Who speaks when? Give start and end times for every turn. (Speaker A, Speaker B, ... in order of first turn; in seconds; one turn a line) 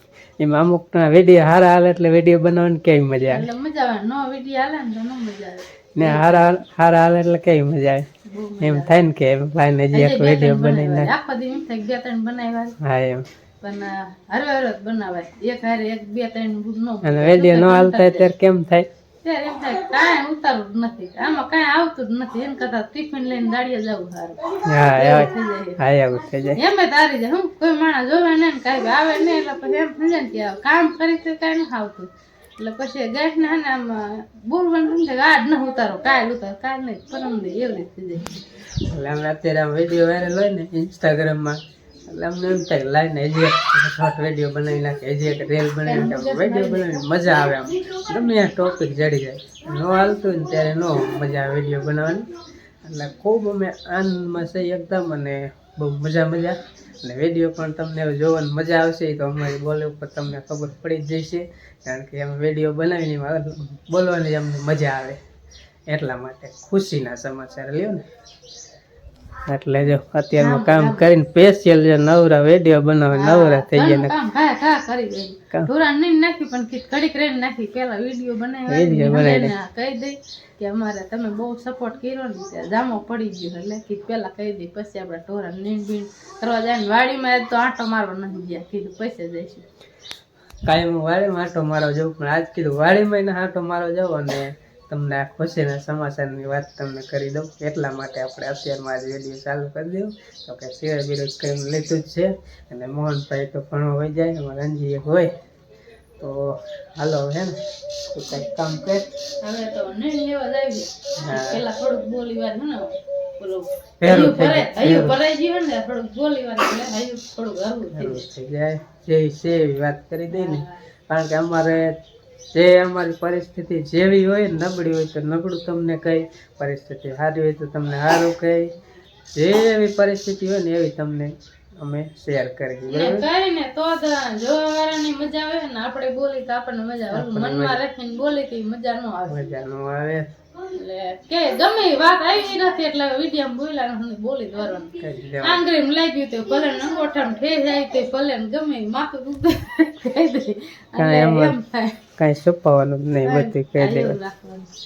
Speaker A: 0.4-3.5
Speaker B: 3.3-6.5
Speaker A: 6.0-8.1
Speaker B: 8.3-9.0
Speaker A: 8.6-11.1
Speaker B: 9.9-12.8
Speaker A: 12.8-13.2
Speaker B: 13.6-18.3
Speaker A: 17.0-18.9
Speaker B: 19.2-25.8
Speaker A: 24.7-26.6
Speaker B: 26.6-38.4
Speaker A: 38.9-52.3
Speaker B: 45.9-47.1
Speaker A: 52.8-65.2
Speaker A: 65.9-68.0
Speaker A: 69.5-74.1
Speaker B: 70.4-71.1
Speaker B: 73.1-89.7
Speaker A: 78.7-79.5
Speaker A: 90.7-105.3
Speaker A: 106.2-109.1
Speaker B: 109.4-112.9
Speaker A: 111.2-111.6
Speaker B: 113.4-118.3
Speaker A: 114.0-115.2
Speaker A: 117.9-121.9
Speaker B: 120.3-120.7
Speaker A: 122.5-128.7
Speaker A: 129.4-133.3
Speaker B: 132.9-139.4
Speaker A: 137.1-137.8
Speaker A: 139.3-140.2
Speaker B: 140.6-152.0
Speaker A: 145.0-145.6
Speaker A: 151.0-151.6
Speaker A: 152.2-154.2
Speaker B: 153.2-154.7